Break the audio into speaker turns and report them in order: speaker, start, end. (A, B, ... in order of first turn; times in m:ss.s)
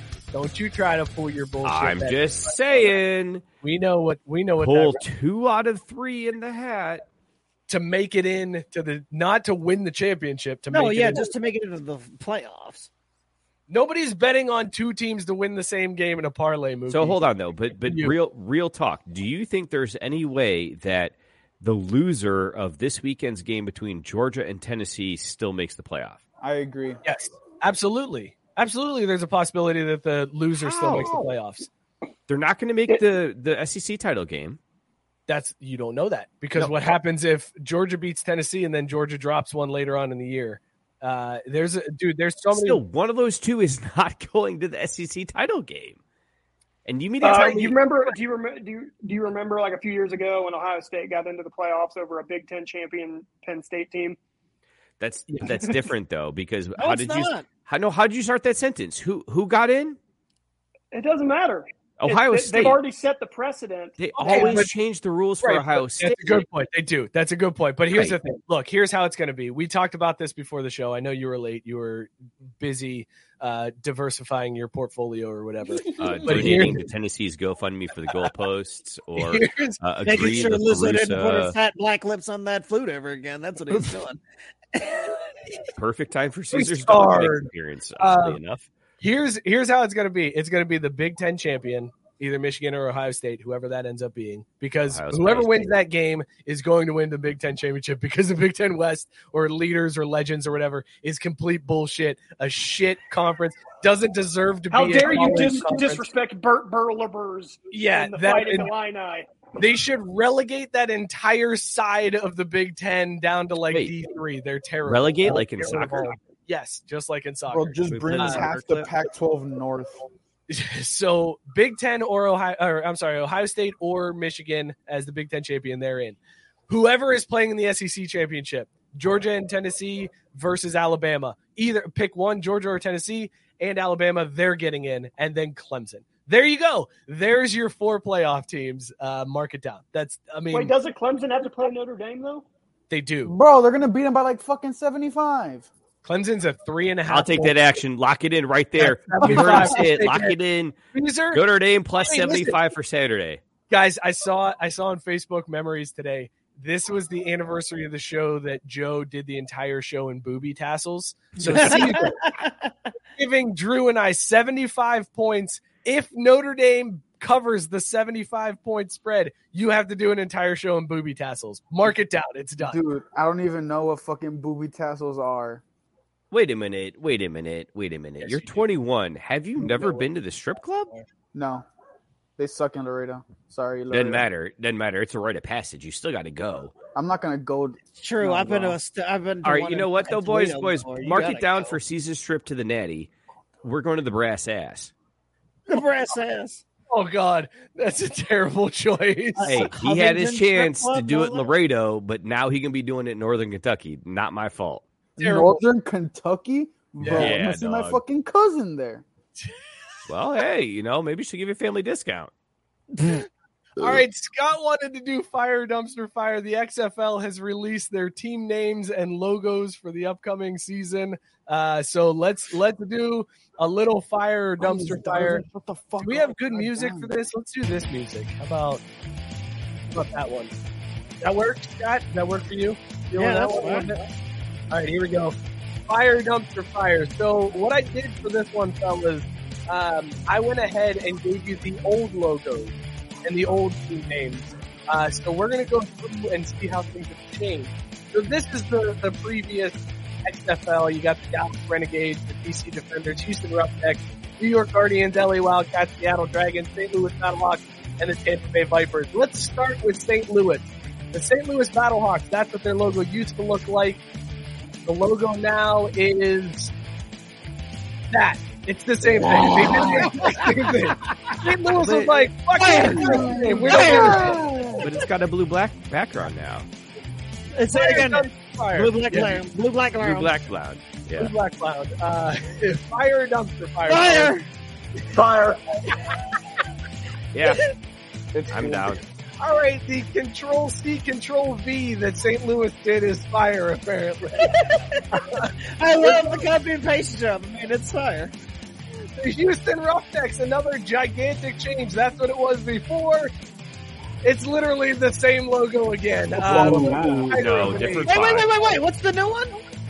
0:00.3-0:03.0 A
0:01.6-0:03.4 B
0:03.6-0:05.0 A
0:04.6-0:07.0 B
0:07.7-0:11.3 A
0:10.7-0:12.9 C
0:13.7-0:17.2 A
0:16.9-0:26.2 B
0:17.8-0:18.1 A
0:26.4-0:27.0 D
0:27.0-0:31.7 A
0:30.6-0:31.3 B
0:32.3-0:34.6 B
0:35.3-0:42.8 A
0:42.5-0:46.0 B
0:46.9-0:47.8 B
0:47.2-0:54.2 E
0:55.0-1:00.0 B
0:56.8-0:57.5 C
1:00.9-1:04.6 E
1:02.0-1:02.8 B
1:04.0-1:06.5 B
1:04.2-1:04.7 A
1:05.4-1:16.8 A
1:07.9-1:08.2 B
1:16.0-1:21.6 B
1:19.2-1:19.8 A
1:20.0-1:24.2 C
1:24.8-1:25.2 C
1:25.8-1:28.7 B
1:26.5-1:27.5 A
1:28.0-1:28.4 A
1:29.0-1:46.1 A
1:34.9-1:35.8 B
1:44.7-1:49.4 E
1:47.7-1:48.7 A
1:49.6-1:58.4 A
1:54.8-1:56.2 B
1:57.5-2:00.0 D
1:57.8-1:58.9 B
2:00.5-2:20.7 A
2:20.5-2:22.5 E
2:22.9-2:23.3 A
2:23.3-2:25.7 D
2:26.0-2:27.7 A
2:27.1-2:30.8 B
2:28.8-2:30.4 A
2:30.9-2:31.5 A
2:31.3-2:33.4 B
2:32.0-2:32.6 A
2:33.7-2:42.3 A
2:41.4-2:42.5 C
2:43.2-2:52.8 A
2:52.6-2:55.6 D
2:56.3-3:00.9 B
2:58.2-2:58.6 A
3:01.3-3:01.7 D
3:02.4-3:04.3 D
3:03.9-3:06.8 B
3:07.0-3:08.8 D
3:08.0-3:11.8 C
3:09.4-3:13.1 B
3:13.6-3:14.9 B
3:15.7-3:16.6 C
3:16.9-3:19.7 A
3:19.4-3:21.5 C
3:19.4-3:24.8 B
3:25.2-3:29.1 D
3:25.2-3:25.6 A
3:27.0-3:27.4 A
3:27.1-3:28.0 B
3:30.1-3:32.3 B
3:33.8-3:45.4 A
3:44.6-3:47.1 D
3:46.0-3:48.8 A
3:49.9-3:50.5 A
3:51.2-3:54.0 A
3:53.2-3:53.9 C
3:54.7-3:55.4 A
3:55.9-4:24.0 A
4:24.8-4:26.7 A
4:28.1-4:34.4 A
4:29.2-4:30.6 D
4:29.4-4:30.3 C
4:31.8-4:32.3 B
4:32.6-4:34.5 C
4:32.6-4:34.8 D
4:34.8-4:36.7 B
4:37.6-4:40.4 C
4:37.7-4:39.4 A
4:40.0-4:41.3 B
4:41.2-4:44.4 A
4:43.9-4:44.5 C
4:45.1-4:45.6 E
4:47.3-4:47.6 B
4:48.3-4:49.0 D
4:48.5-4:49.0 B
4:49.4-4:54.6 A
4:54.4-4:55.0 C
4:55.8-4:58.3 C
4:56.0-4:56.4 A
4:59.2-5:03.3 A
5:04.2-5:08.3 A
5:06.4-5:07.4 D
5:06.5-5:08.5 B
5:08.1-5:09.7 C